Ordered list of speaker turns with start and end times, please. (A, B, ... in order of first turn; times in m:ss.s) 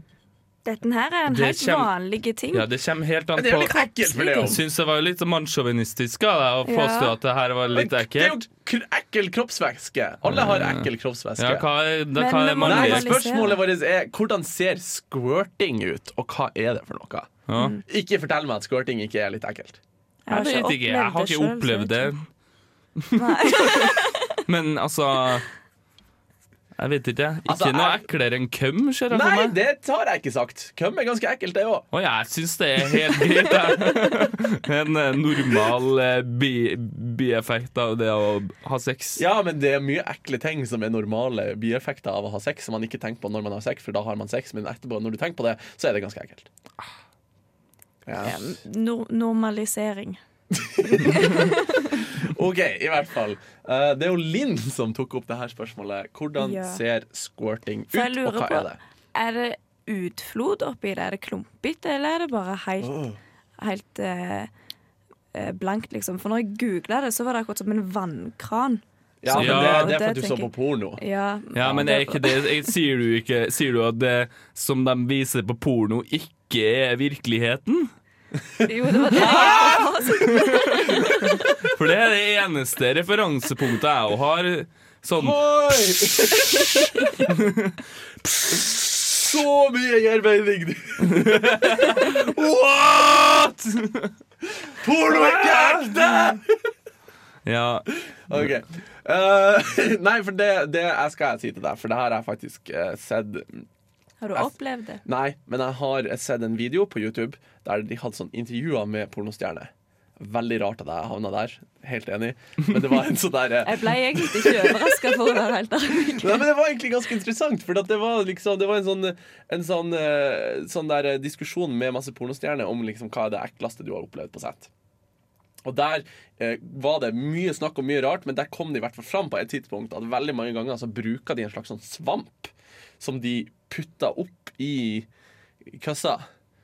0:00.7-0:02.7 A
0:01.3-0:01.9 B
0:02.5-0:08.4 B
0:03.4-0:04.6 C
0:04.0-0:04.5 A
0:06.6-0:07.2 A
0:07.7-0:11.7 C
0:10.3-0:13.2 B
0:12.2-0:13.6 A
0:12.6-0:19.8 C
0:17.5-0:17.8 B
0:20.3-0:22.1 A
0:20.3-0:22.2 B
0:23.0-0:25.5 B
0:23.1-0:24.4 A
0:26.8-0:29.6 B
0:27.5-0:28.0 C
0:29.1-0:31.9 C
0:31.9-0:39.2 B
0:39.2-0:46.5 C
0:48.1-0:48.6 C
0:48.2-0:50.2 A
0:50.5-0:58.8 C
0:50.9-0:51.9 A
0:56.4-0:56.8 A
0:57.9-1:03.1 A
1:02.8-1:03.2 C
1:03.6-1:04.5 A
1:05.3-1:12.5 A
1:09.2-1:11.0 C
1:09.3-1:10.0 B
1:11.6-1:17.9 B
1:11.6-1:11.9 C
1:18.6-1:21.4 A
1:19.1-1:21.5 C
1:19.1-1:25.4 B
1:25.2-1:27.3 C
1:27.2-1:27.8 B
1:28.5-1:32.5 C
1:31.0-1:34.1 B
1:33.0-1:33.3 C
1:34.7-1:36.6 C
1:35.0-1:36.4 B
1:37.5-1:38.4 B
1:38.1-1:43.7 C
1:44.2-1:45.0 A
1:45.0-1:55.2 C
1:53.6-1:56.5 A
1:56.0-2:04.7 C
2:05.6-2:15.1 C
2:15.6-2:16.3 C